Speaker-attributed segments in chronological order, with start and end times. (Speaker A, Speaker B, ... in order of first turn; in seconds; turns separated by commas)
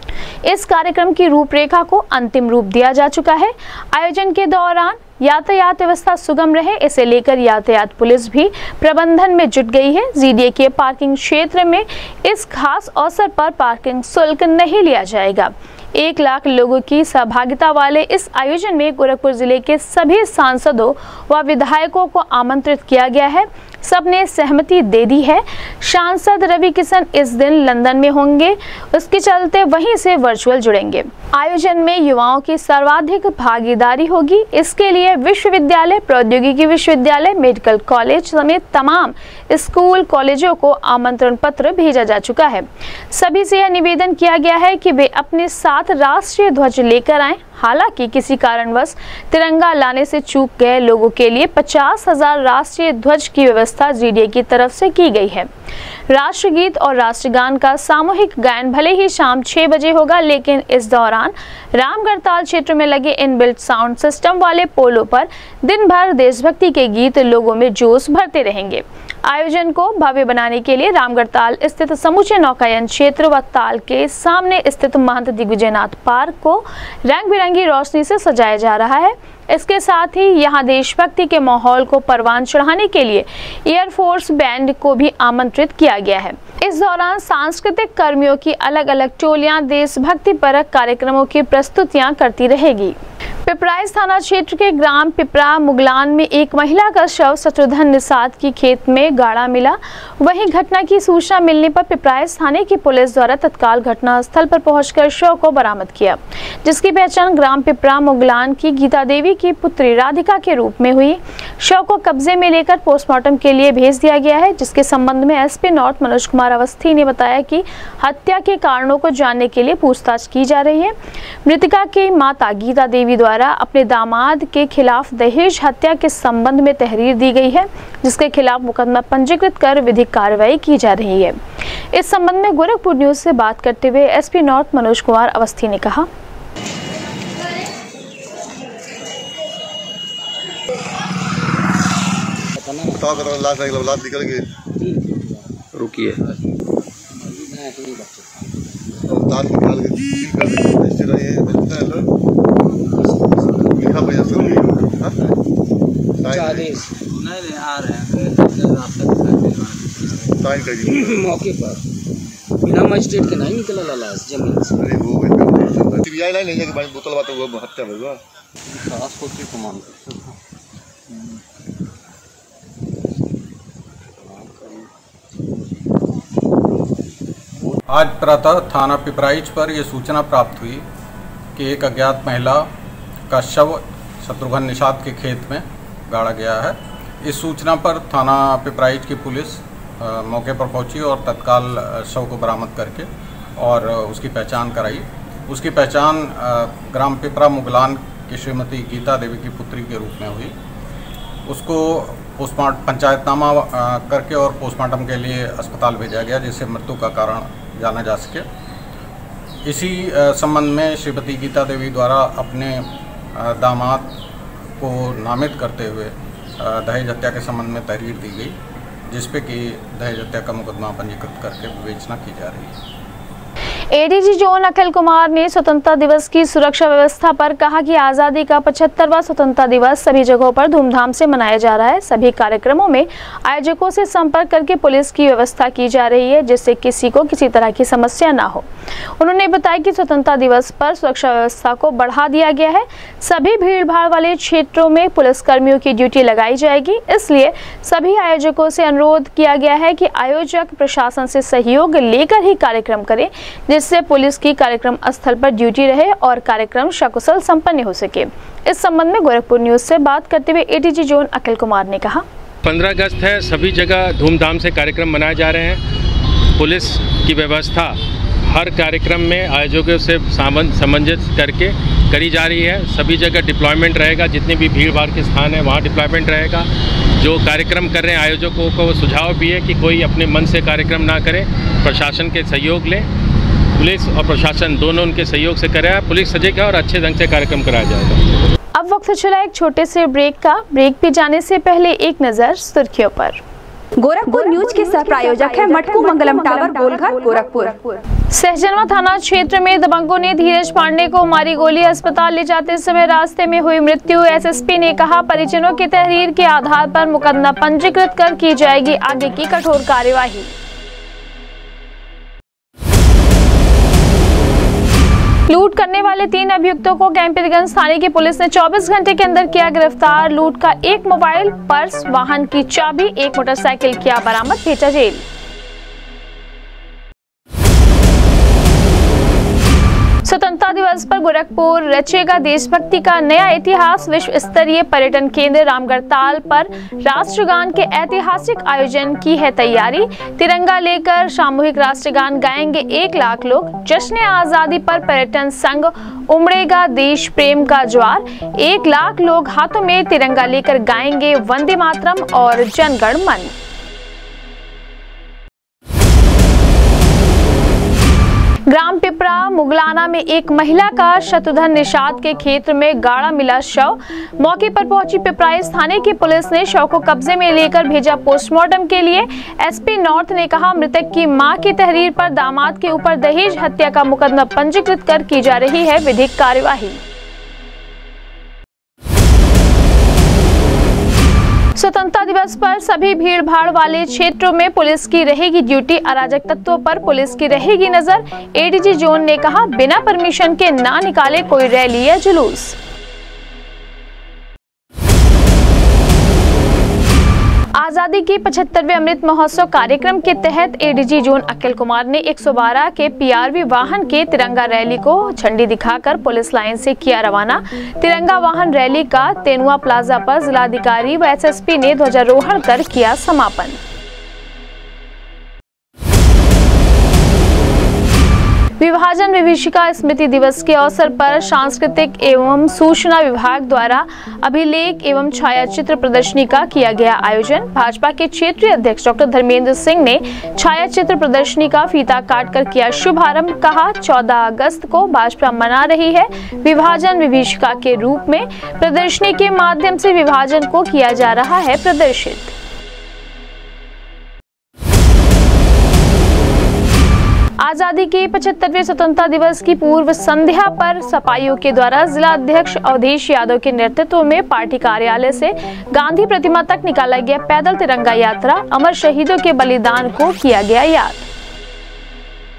Speaker A: 0.5-55.5, Speaker A: 56.1-92.9, Speaker A: 93.5-120.9, Speaker A: 121.4-131.4, Speaker A: 131.9-136.1, Speaker B: 142.6-143.3, Speaker C: 142.9-144.5, Speaker B: 144.8-145.1, Speaker B: 147.2-148.3, Speaker C: 149.1-152.1, Speaker B: 153.0-153.5, Speaker C: 153.7-155.3, Speaker C: 156.2-156.7, Speaker B: 156.3-160.1, Speaker C: 160.4-161.1, Speaker B: 160.9-161.8, Speaker B: 162.6-164.8, Speaker C: 164.8-168.2, Speaker D: 177.9-180.8, Speaker D: 181.6-182.7, Speaker D: 183.3-200.5, Speaker D: 201.5-208.4, Speaker D: 209.6-214.1, Speaker D: 214.8-218.5, Speaker D: 219.1-222.7, Speaker A: 223.9-238.7, Speaker A: 239.2-262.2, Speaker E: 262.6-265.8, Speaker E: 266.6-283.1, Speaker E: 283.8-288.2, Speaker A: 288.7-293.4, Speaker F: 294.0-298.0, Speaker A: 298.3-310.5, Speaker A: 315.5-325.2, Speaker A: 330.2-353.5, Speaker A: 358.7-377.0, Speaker A: 381.8-392.8, Speaker A: 397.8-413.8, Speaker A: 418.8-442.5, Speaker A: 447.6-461.3